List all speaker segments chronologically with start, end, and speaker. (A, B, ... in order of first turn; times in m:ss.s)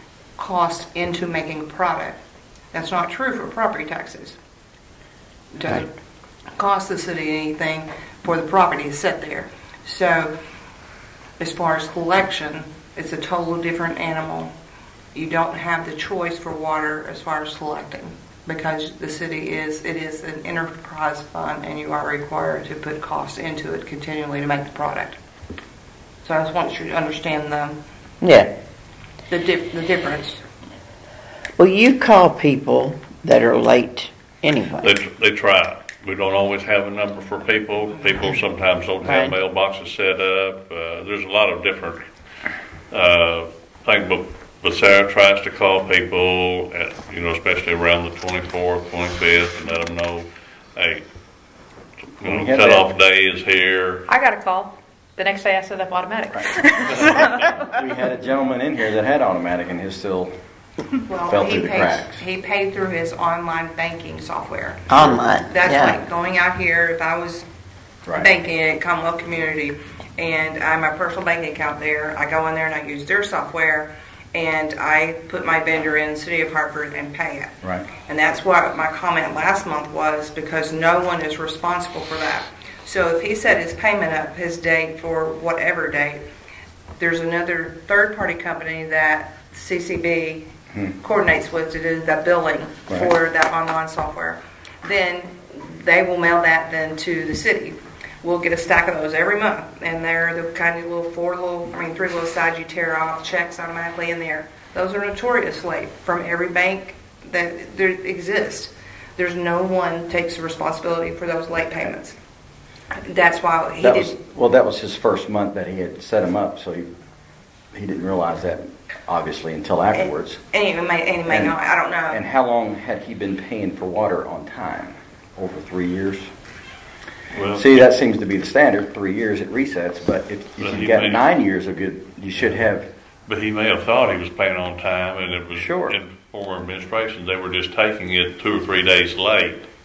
0:00.4-0:02.2 A
0:02.7-0:04.4 A
0:05.5-0:05.9 A
0:06.6-0:10.3 A
0:11.4-0:14.5 A
0:15.1-0:25.2 A
0:26.2-0:27.8 A
0:28.2-0:28.5 B
0:29.3-0:30.4 A
0:31.6-0:34.9 B
0:34.8-0:42.0 C
0:39.0-0:39.4 B
0:42.9-0:51.0 C
0:52.2-0:54.1 C
0:52.2-0:52.9 D
0:54.1-0:57.1 E
0:57.6-1:00.3 D
1:01.1-1:07.4 A
1:01.3-1:02.2 D
1:04.9-1:06.0 B
1:08.1-1:26.2 A
1:27.0-1:30.5 A
1:31.0-1:52.2 A
1:52.9-1:54.2 A
1:53.8-1:56.9 D
1:57.7-2:00.4 D
1:59.9-2:02.2 A
2:01.3-2:01.6 D
2:02.1-2:06.3 D
2:07.3-2:07.7 C
2:07.6-2:12.9 D
2:10.6-2:11.2 C
2:13.3-2:19.7 C
2:15.5-2:16.0 D